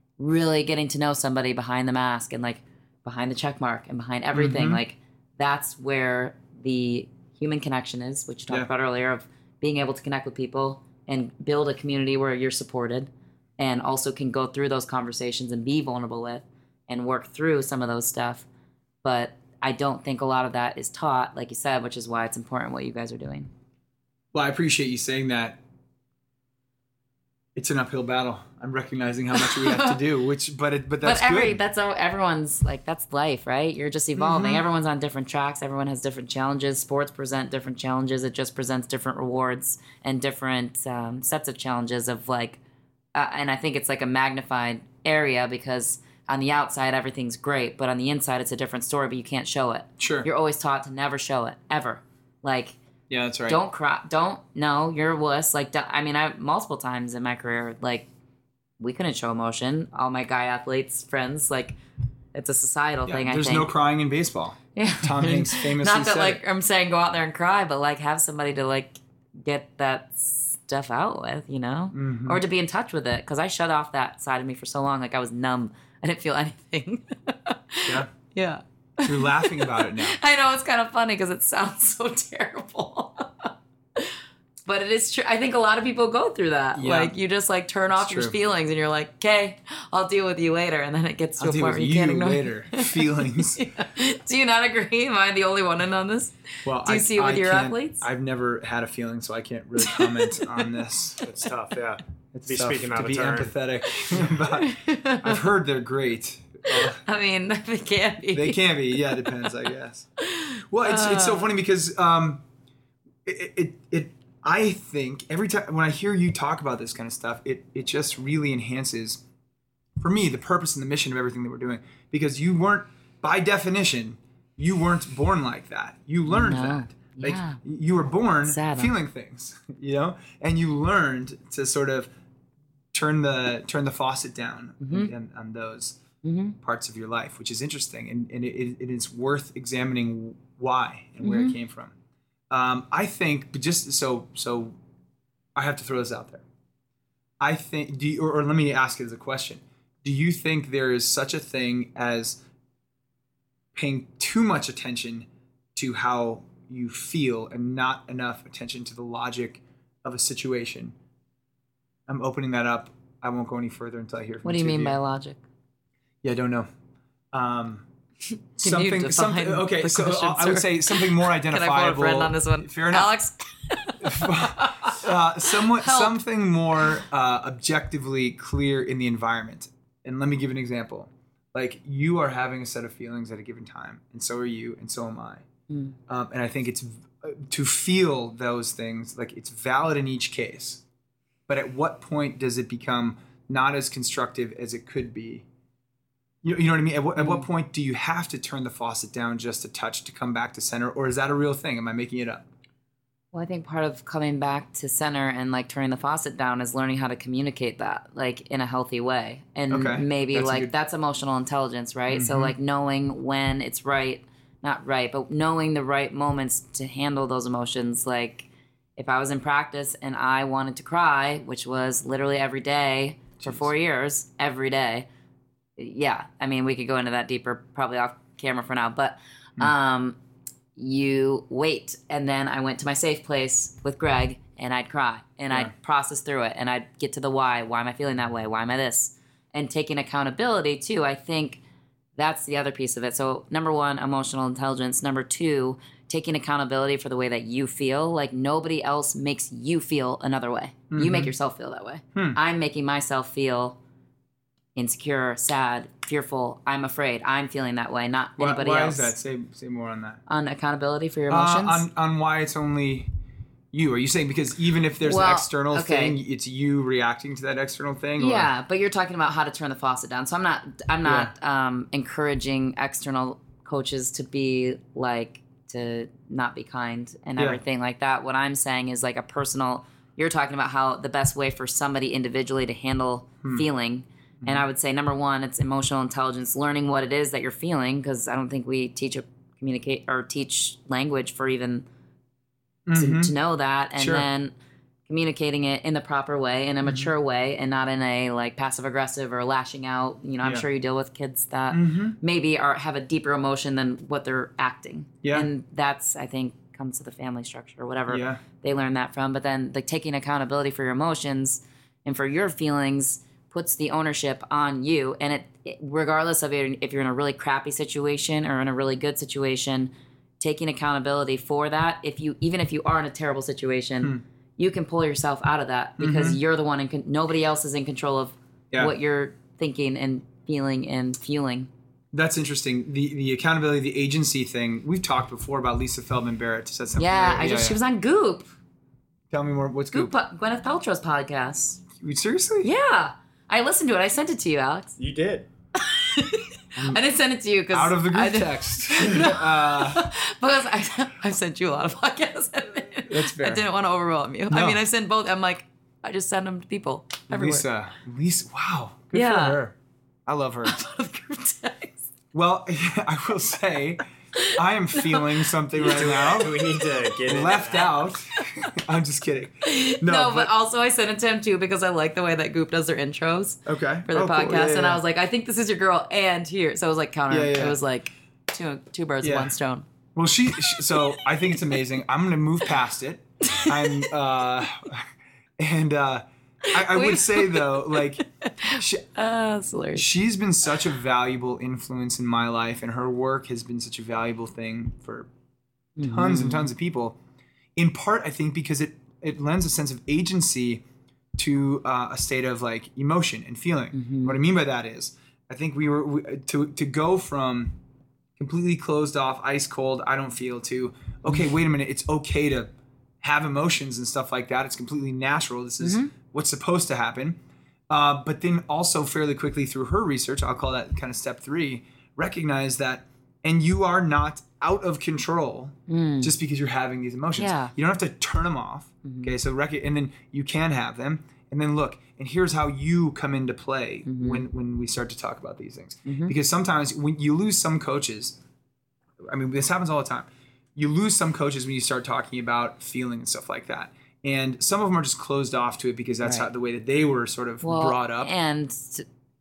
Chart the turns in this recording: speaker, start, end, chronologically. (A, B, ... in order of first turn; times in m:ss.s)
0:00.2-0:18.5 A
0:04.3-0:04.8 B
0:19.0-0:23.5 A
0:24.3-0:25.6 B
0:27.5-0:31.6 B
0:29.3-0:30.0 A
0:31.0-0:42.6 A
0:34.2-0:34.6 B
0:43.1-0:52.8 A
0:50.0-0:50.3 B
0:53.1-0:53.6 B
0:53.5-0:58.1 A
0:58.8-1:01.8 A
1:02.3-1:03.7 A
1:03.0-1:06.4 B
1:04.8-1:38.0 A
1:11.9-1:12.4 B
1:19.0-1:20.2 B
1:26.8-1:27.1 B
1:28.0-1:28.3 B
1:31.4-1:33.6 B
1:36.6-1:41.2 B
1:39.8-1:40.7 A
1:41.2-1:43.5 C
1:42.3-1:47.0 B
1:44.5-1:45.4 A
1:46.7-1:49.5 A
1:48.3-1:50.1 B
1:50.2-1:51.5 A
1:50.7-1:52.4 B
1:53.2-1:59.2 B
2:00.0-2:12.1 B
2:06.3-2:07.6 A
2:08.4-2:08.9 A
2:12.9-2:16.0 B
2:14.8-2:15.1 A
2:16.2-2:16.6 A
2:16.6-2:21.9 B
2:21.2-2:21.6 A
2:22.5-2:24.8 B
2:25.6-2:26.4 B
2:27.4-2:32.4 B
2:33.7-2:40.9 B
2:42.1-2:45.0 B
2:44.4-2:45.4 A
2:46.2-2:46.7 B
2:47.3-2:47.8 B
2:48.6-2:53.1 B
2:48.6-2:56.2 A
2:54.0-3:05.4 B
3:05.7-3:06.0 A
3:06.1-3:10.8 B
3:11.5-3:15.4 B
3:16.4-3:22.4 B
3:17.2-3:17.4 A
3:23.3-3:45.1 A
3:29.7-3:30.7 B
3:32.1-3:32.5 B
3:43.4-3:43.6 B
3:45.8-3:50.2 A
3:50.8-4:01.6 A
4:02.2-4:13.8 A
4:10.9-4:11.3 B
4:14.7-4:19.1 A
4:18.4-4:20.2 B
4:20.3-4:21.8 A
4:21.3-4:23.1 B
4:23.7-4:28.5 B
4:25.0-4:26.2 A
4:28.2-4:51.8 A
4:31.0-4:31.3 B
4:52.9-4:53.3 B
4:52.9-4:54.5 A
4:54.0-4:54.3 B
4:55.1-5:31.7 A
4:56.8-4:57.1 B
5:01.7-5:02.2 B
5:05.2-5:05.5 B
5:08.1-5:08.4 B
5:26.0-5:26.4 B
5:32.1-5:37.8 B
5:37.0-5:38.4 A
5:39.3-5:40.1 B
5:39.9-5:41.8 A
5:42.0-5:42.7 B
5:42.6-5:45.0 A
5:45.0-5:45.5 C
5:45.7-5:57.6 A
5:47.7-5:50.1 B
5:53.1-5:53.6 B
5:54.5-5:54.8 B
5:57.3-5:59.8 B
5:59.1-5:59.6 A
6:00.3-6:00.8 B
6:00.6-6:02.1 A
6:02.3-6:06.6 B
6:05.1-6:07.7 A
6:05.8-6:08.0 C
6:07.2-6:10.5 B
6:09.6-6:19.8 A
6:13.6-6:15.0 B
6:17.3-6:17.8 B
6:19.2-6:19.5 B
6:20.1-6:25.1 B
6:23.5-6:24.1 A
6:25.6-6:29.1 B
6:26.6-6:30.0 A
6:29.9-6:35.3 B
6:36.0-6:36.7 A
6:36.0-6:37.2 B
6:37.8-6:40.8 B
6:41.4-6:47.8 B
6:43.9-6:44.4 A
6:48.4-6:57.4 B
6:55.8-6:56.1 A
6:57.9-7:18.4 B
7:05.9-7:06.3 A
7:07.4-7:07.7 A
7:09.0-7:09.3 A
7:14.0-7:14.4 A
7:16.0-7:16.3 A
7:19.3-7:28.3 B
7:27.6-7:29.0 A